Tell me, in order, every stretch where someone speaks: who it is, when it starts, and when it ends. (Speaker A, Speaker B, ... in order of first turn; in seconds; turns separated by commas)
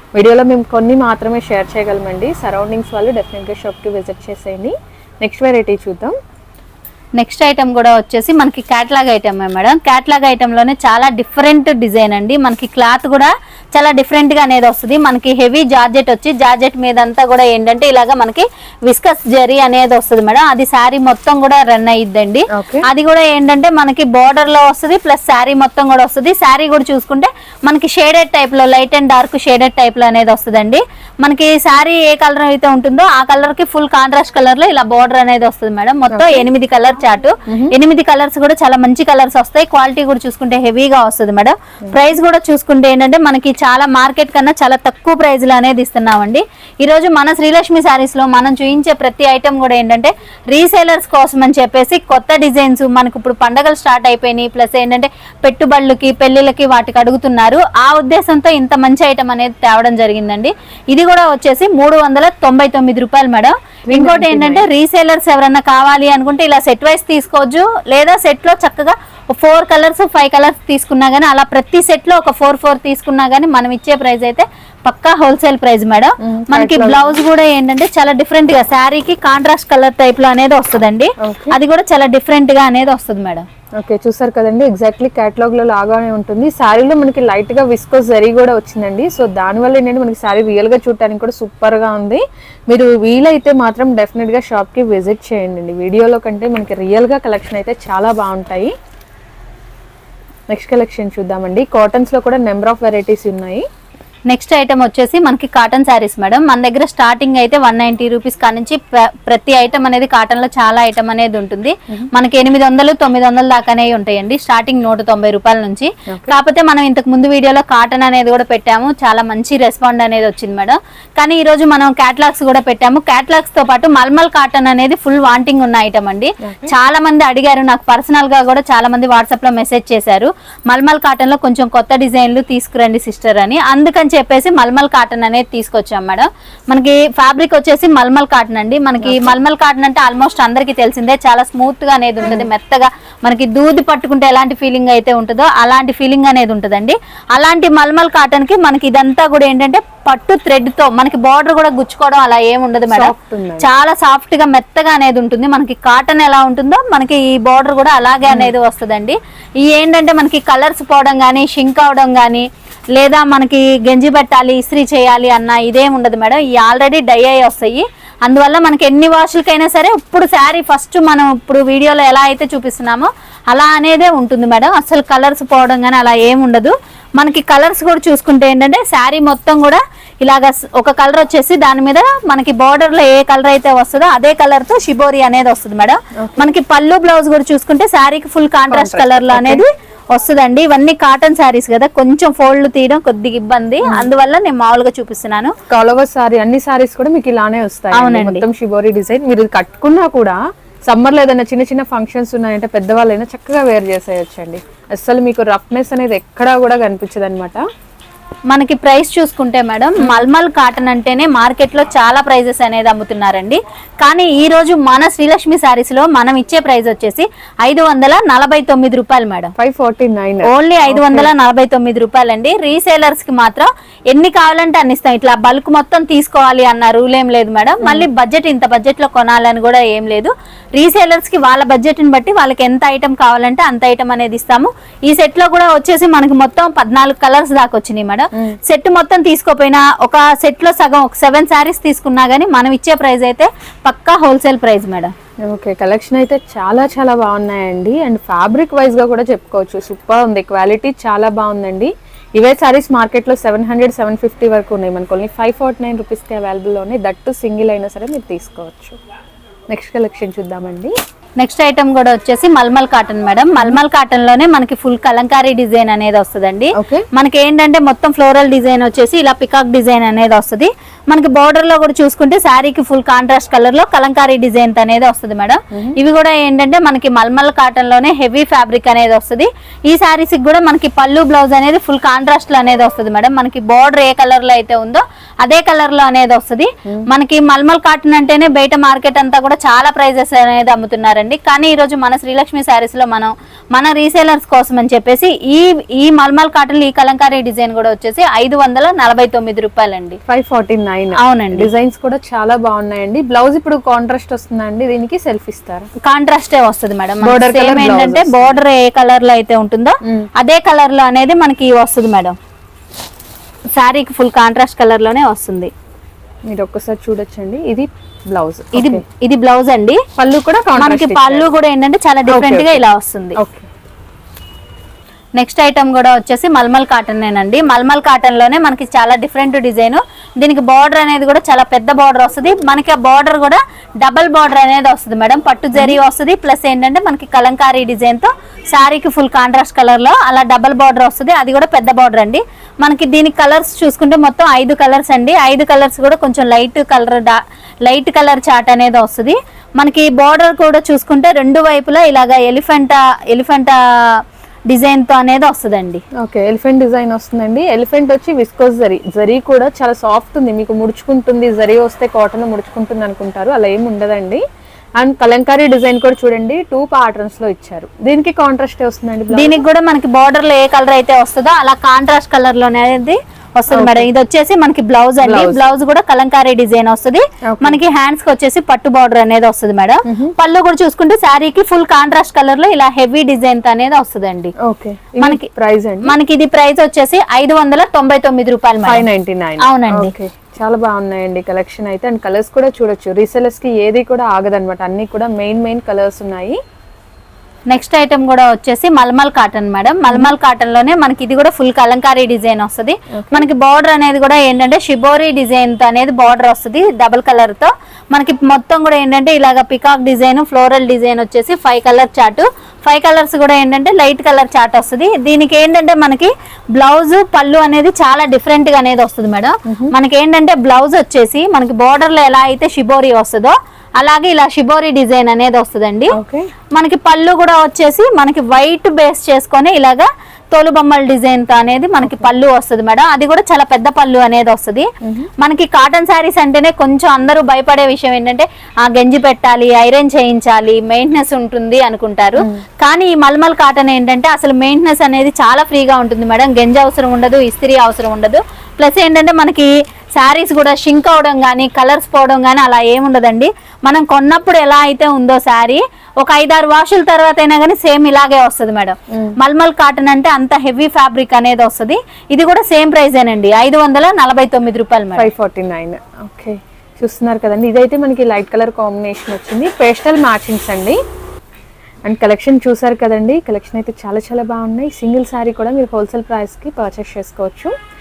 Speaker A: 0.2-6.1, Speaker B: 7.2-83.5, Speaker A: 22.5-22.9, Speaker A: 36.1-36.5, Speaker A: 37.5-37.7, Speaker A: 63.9-64.7, Speaker A: 76.2-77.2, Speaker A: 81.2-81.5, Speaker A: 83.8-98.7, Speaker A: 100.5-103.6, Speaker B: 104.3-195.5, Speaker A: 126.4-126.7, Speaker A: 139.0-139.4, Speaker A: 142.2-142.5, Speaker A: 152.9-153.7, Speaker A: 158.3-158.5, Speaker A: 186.2-186.5, Speaker A: 188.7-189.7, Speaker A: 195.7-207.6, Speaker B: 197.9-198.4, Speaker B: 208.5-219.5, Speaker A: 219.6-221.3, Speaker B: 220.4-245.1, Speaker A: 227.8-228.1, Speaker A: 245.5-259.0, Speaker A: 259.7-260.9, Speaker B: 261.4-300.2, Speaker A: 266.8-267.1, Speaker A: 275.7-276.0, Speaker A: 300.3-305.9, Speaker B: 301.2-301.7, Speaker B: 306.1-312.4, Speaker A: 307.2-308.6, Speaker B: 313.8-315.7, Speaker A: 316.5-319.0, Speaker B: 318.8-320.0, Speaker A: 320.2-321.5, Speaker B: 320.8-323.4, Speaker A: 322.3-322.8, Speaker A: 323.4-323.7, Speaker B: 325.4-356.0, Speaker A: 335.7-336.0, Speaker A: 356.2-364.4, Speaker A: 365.0-369.6, Speaker B: 369.3-384.5, Speaker A: 373.7-374.1, Speaker A: 375.2-375.6, Speaker A: 377.5-377.8, Speaker A: 380.1-380.4, Speaker A: 384.6-386.2, Speaker B: 385.2-385.5, Speaker B: 386.1-389.1, Speaker A: 388.9-396.6, Speaker B: 389.6-390.1, Speaker B: 397.7-426.2, Speaker A: 400.1-400.3, Speaker A: 403.2-403.5, Speaker A: 426.1-426.5, Speaker B: 426.8-465.3, Speaker A: 432.0-432.3, Speaker A: 435.1-435.3, Speaker A: 465.2-471.0, Speaker A: 472.1-477.7